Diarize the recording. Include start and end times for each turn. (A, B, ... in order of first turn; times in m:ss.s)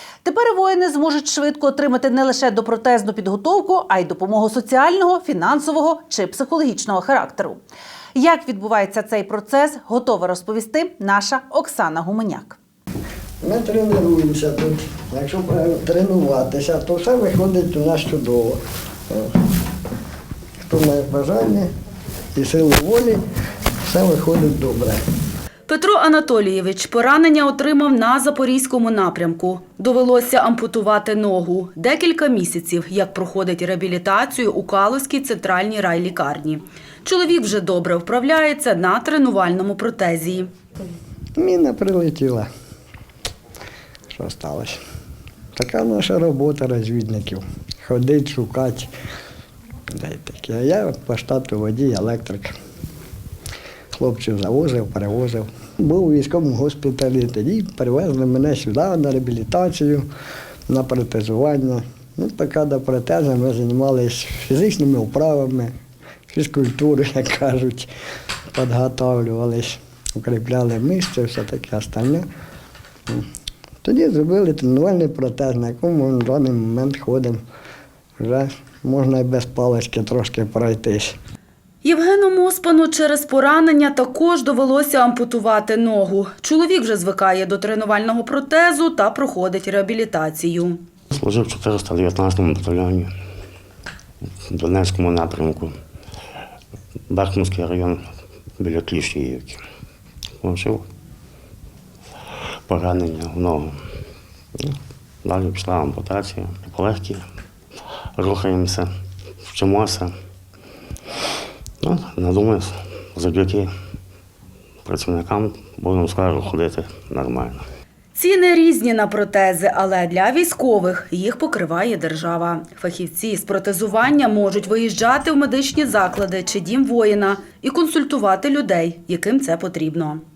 0:00.2-0:07.6 A
0:08.2-0:12.6 A
0:13.4-0:19.3 B
0:20.6-0:21.7 B
0:22.4-0:23.2 B
0:23.9-0:25.0 B
0:25.7-0:40.5 C
0:41.4-0:42.5 B
0:44.1-0:44.8 B
0:45.6-0:48.9 B
0:49.9-0:52.5 B
0:53.9-1:00.1 B
1:00.7-1:05.7 B
1:06.3-1:07.9 B
1:08.5-1:12.2 B
1:13.8-1:17.4 B
1:18.2-1:21.2 B
1:21.8-1:30.8 C
1:31.1-1:33.1 D
1:34.5-1:35.7 D
1:37.1-1:38.0 D
1:38.6-1:39.6 D
1:40.4-1:40.8 D
1:42.7-1:43.8 D
1:44.6-1:47.3 D
1:48.2-1:48.9 D
1:49.4-1:50.1 D
1:51.8-1:53.7 D
1:54.8-1:57.6 D
1:58.2-2:10.2 C